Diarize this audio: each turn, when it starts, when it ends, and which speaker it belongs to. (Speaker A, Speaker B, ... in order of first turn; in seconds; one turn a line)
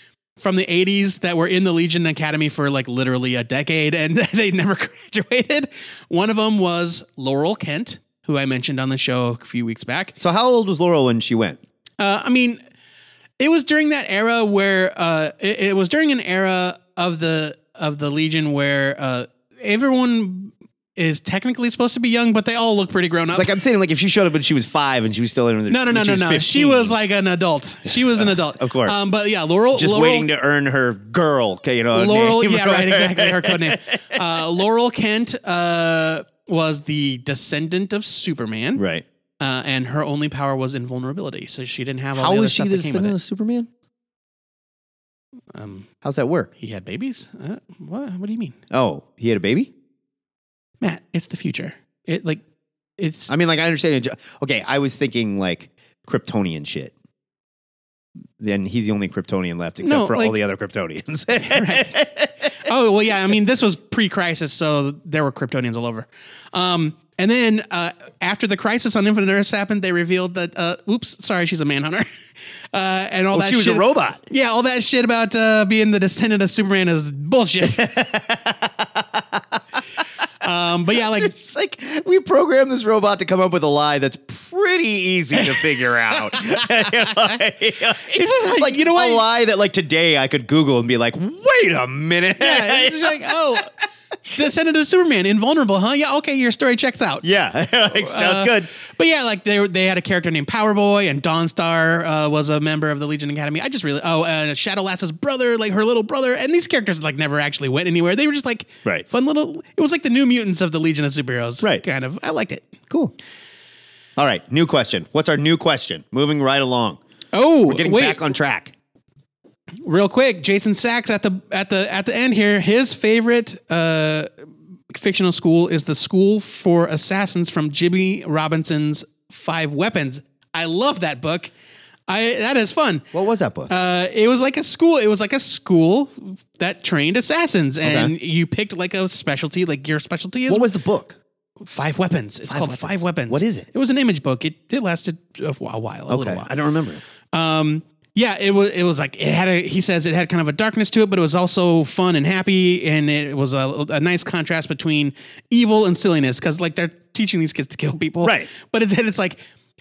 Speaker A: 0.4-10.2
Speaker B: 10.2-11.6
Speaker A: 12.0-12.6
Speaker A: 13.4-23.5
Speaker B: 23.3-27.0
Speaker A: 25.7-30.3
Speaker B: 27.9-29.0
Speaker B: 29.7-33.8
Speaker A: 31.9-38.8
Speaker B: 38.8-39.0
Speaker A: 39.4-43.1
Speaker B: 42.1-43.7
Speaker A: 45.5-45.9
Speaker B: 46.0-46.5
Speaker A: 46.6-48.6
Speaker B: 48.7-49.7
Speaker A: 50.8-52.4
Speaker A: 53.0-53.3
Speaker B: 53.3-56.9
Speaker B: 58.4-62.3
Speaker A: 59.8-60.4
Speaker A: 61.4-62.0
Speaker A: 62.6-72.1
Speaker A: 72.7-77.9
Speaker B: 73.3-74.2
Speaker B: 77.6-79.6
Speaker A: 80.4-81.3
Speaker B: 80.9-93.3
Speaker A: 88.1-89.2
Speaker A: 92.4-93.7
Speaker A: 94.3-97.2
Speaker B: 97.2-98.7
Speaker A: 97.9-112.8
Speaker B: 114.2-117.0
Speaker A: 117.3-118.2
Speaker B: 117.7-118.7
Speaker A: 119.8-124.3
Speaker A: 124.9-131.5
Speaker A: 132.1-133.1
Speaker B: 133.1-133.7
Speaker A: 133.7-140.7
Speaker B: 137.8-138.1
Speaker B: 140.5-141.2
Speaker A: 141.7-146.5
Speaker B: 142.5-143.7
Speaker B: 146.1-147.0
Speaker A: 147.3-159.4
Speaker B: 158.2-158.5